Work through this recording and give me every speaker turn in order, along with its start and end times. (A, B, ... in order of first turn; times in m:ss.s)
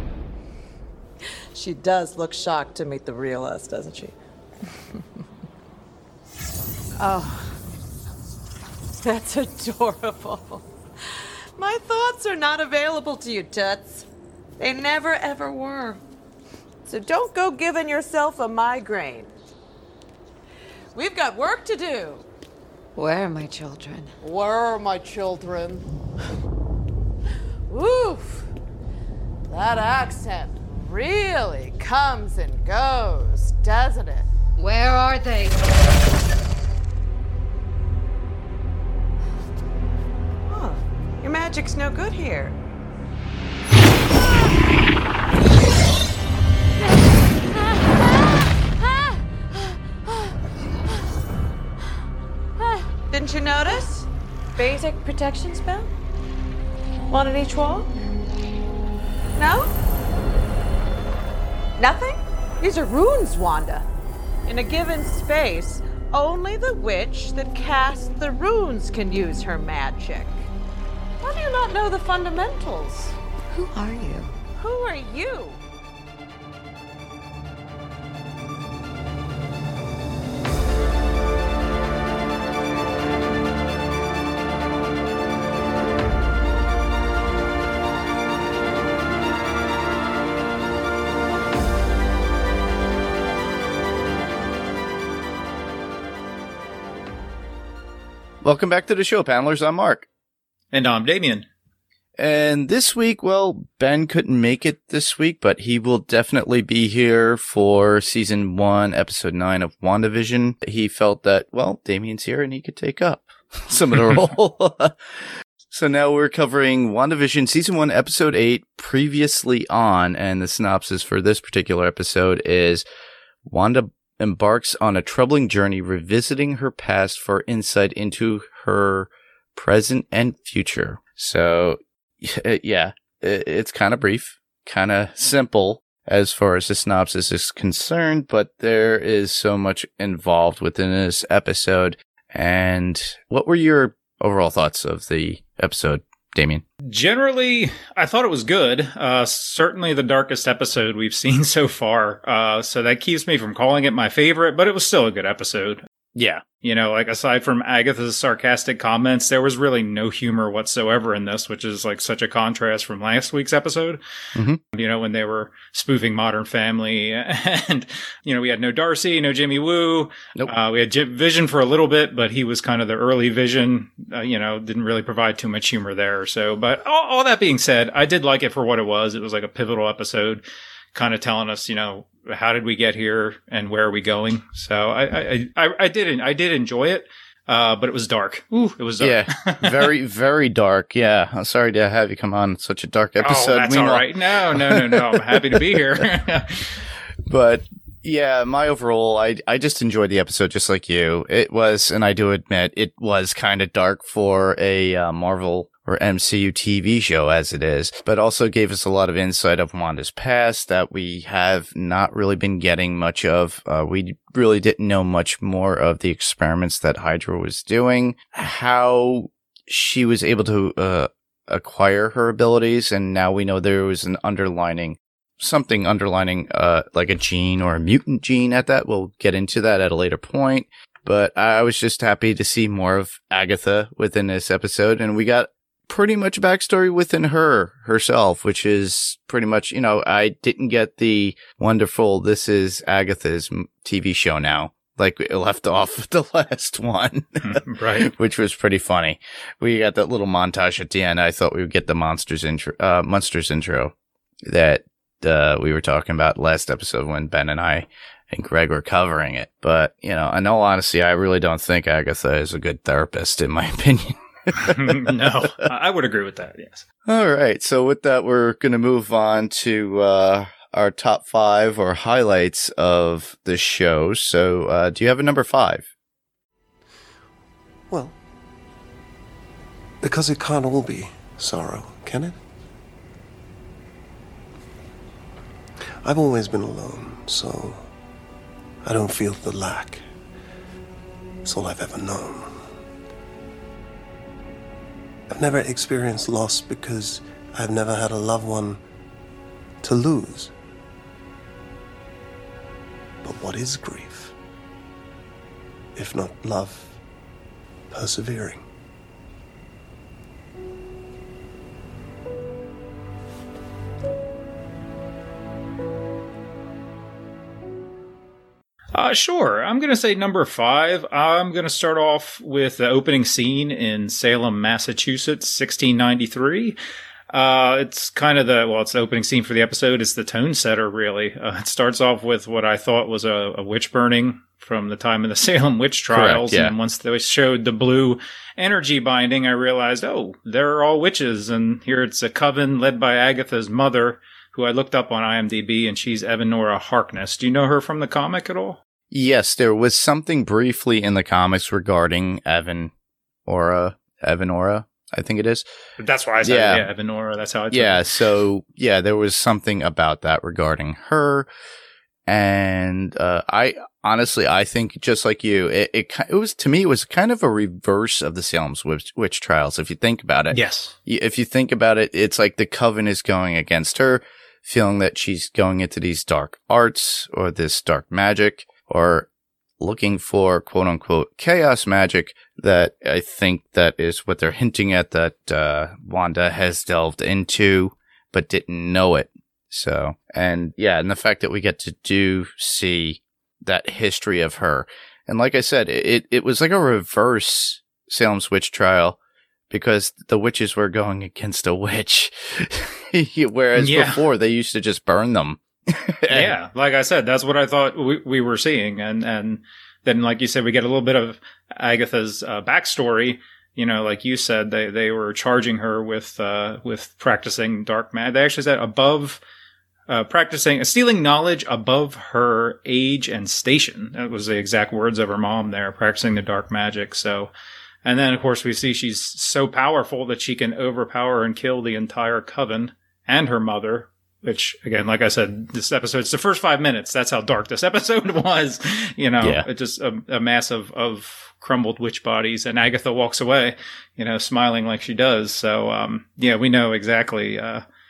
0:01.5-0:04.1 A
0:07.0-0:07.5 A
0:09.0-0:10.6 A
0:11.6-0:14.1 A
0:14.6-0:16.0 A
0:16.8-0:19.3 A
0:20.9-0:22.2 A
0:23.0-0:24.1 B
0:24.2-0:25.8 A
0:27.7-0:28.5 A
0:29.5-0:34.3 A
0:34.6-0:35.6 B
0:40.5-0:42.5 A
0:47.6-0:48.0 A
0:48.8-0:49.2 A
0:52.6-0:55.9 A
0:57.1-0:57.9 A
0:59.4-0:59.7 A
1:01.8-1:03.8 A
1:04.4-1:10.5 A
1:11.2-1:13.2 A
1:13.5-1:14.3 B
1:14.6-1:15.6 A
1:38.4-1:40.1 C
1:40.7-1:41.5 D
1:42.2-1:55.0 C
1:55.7-2:02.8 C
2:03.4-2:26.6 C
2:26.8-2:35.8 D
2:36.2-2:36.4 C
2:36.6-2:44.0 D
2:44.3-2:44.6 C
2:44.7-3:00.4 D
3:00.9-3:09.9 D
3:09.0-3:16.0 C
3:13.2-3:16.8 D
3:17.2-4:13.9 C
4:07.4-4:08.1 D
4:14.4-4:25.1 C
4:24.5-4:26.8 D
4:27.0-4:35.9 C
4:37.9-4:38.2 E
4:40.0-4:42.4 E
4:46.0-4:47.9 E
4:48.8-4:50.0 E
4:51.4-4:52.7 E
4:55.3-4:58.8 E
4:59.8-5:00.5 E
5:03.2-5:04.3 E
5:05.9-5:07.0 E
5:07.9-5:08.6 E
5:18.9-5:26.8 D
5:27.3-5:48.8 D
5:36.1-5:36.7 C
5:49.1-5:52.9 C
5:53.4-5:55.6 C
5:56.0-5:58.0 D
5:56.4-5:56.9 C
5:57.7-6:01.5 C
6:02.2-6:19.3 C
6:10.5-6:10.9 D
6:19.8-6:39.2 C
6:39.7-6:46.5 C
6:43.8-6:44.2 D
6:46.3-6:59.4 D
7:00.1-7:07.5 D
7:08.0-7:27.8 D